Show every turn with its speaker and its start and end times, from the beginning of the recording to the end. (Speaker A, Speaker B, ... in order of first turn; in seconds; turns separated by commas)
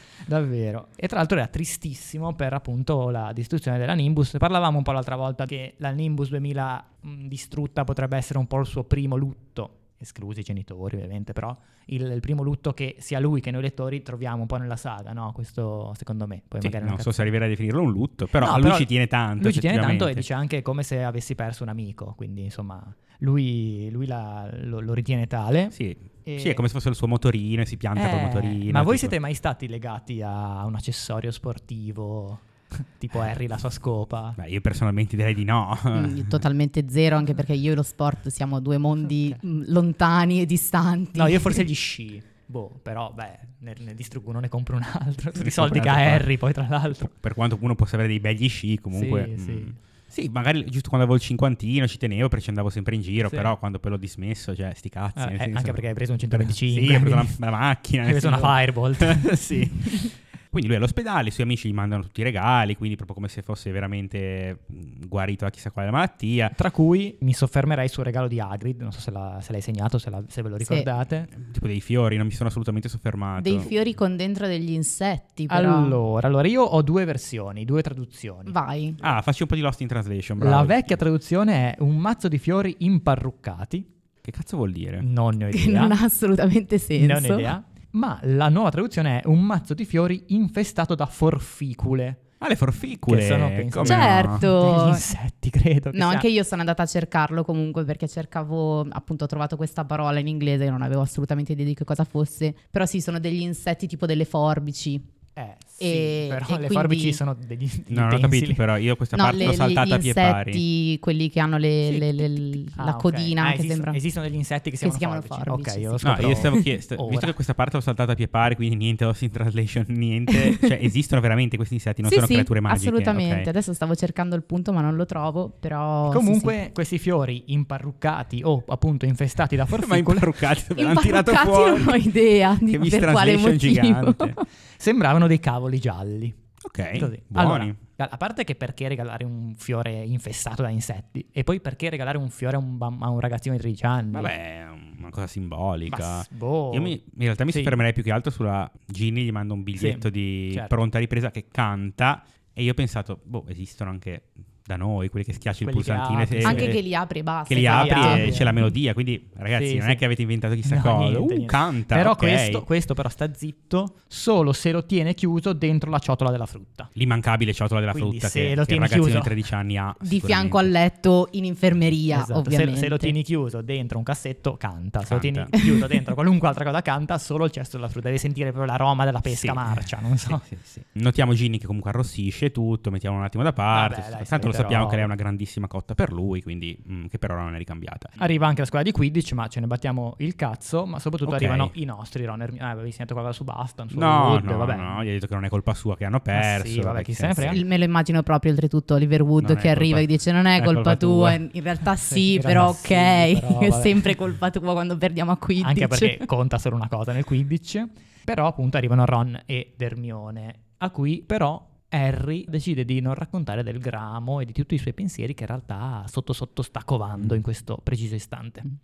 Speaker A: 0.3-17.3, Speaker B: 16.6-20.2, Speaker A: 18.3-26.7, Speaker B: 25.7-29.1, Speaker A: 27.9-34.4, Speaker B: 34.4-36.4, Speaker C: 35.9-41.6, Speaker A: 41.1-47.1, Speaker B: 45.4-46.3, Speaker B: 47.1-66.5, Speaker A: 48.9-49.8, Speaker A: 53.2-53.5, Speaker A: 55.1-57.4, Speaker A: 58.0-59.4, Speaker A: 66.5-71.3, Speaker B: 71.3-73.7, Speaker C: 73.4-76.0, Speaker A: 75.5-78.5, Speaker C: 78.5-79.0, Speaker B: 79.0-80.9, Speaker A: 80.4-83.9, Speaker B: 84.2-85.0, Speaker A: 85.0-86.0, Speaker C: 85.5-87.5, Speaker A: 87.0-92.2, Speaker B: 92.4-94.4, Speaker A: 93.0-96.3, Speaker C: 93.8-95.1, Speaker C: 95.9-105.1, Speaker A: 105.3-108.6, Speaker C: 105.8-107.2, Speaker B: 107.9-110.6, Speaker C: 109.1-114.0, Speaker A: 112.7-117.3, Speaker C: 114.8-116.7, Speaker B: 116.0-123.5, Speaker C: 120.3-120.7, Speaker C: 122.0-126.5, Speaker A: 126.1-130.4, Speaker B: 129.7-132.1, Speaker C: 130.8-134.4, Speaker B: 132.6-134.4, Speaker A: 134.8-136.4, Speaker B: 136.6-137.8, Speaker A: 136.9-144.3, Speaker B: 144.1-156.8, Speaker A: 145.9-147.8, Speaker A: 149.8-150.8, Speaker A: 155.6-156.8, Speaker C: 156.4-158.6, Speaker B: 157.4-162.6, Speaker A: 157.5-158.6, Speaker A: 159.5-160.0, Speaker A: 160.6-166.9, Speaker B: 166.9-170.7, Speaker A: 167.9-169.3, Speaker C: 170.0-173.1, Speaker A: 172.1-180.5, Speaker B: 175.1-175.5, Speaker C: 175.6-175.9, Speaker B: 179.2-188.1, Speaker A: 183.7-185.1, Speaker A: 188.2-195.0, Speaker B: 191.2-191.7, Speaker B: 193.9-197.6, Speaker A: 196.3-197.6, Speaker C: 197.4-206.2, Speaker B: 199.4-201.4, Speaker A: 202.0-204.1, Speaker A: 205.6-218.7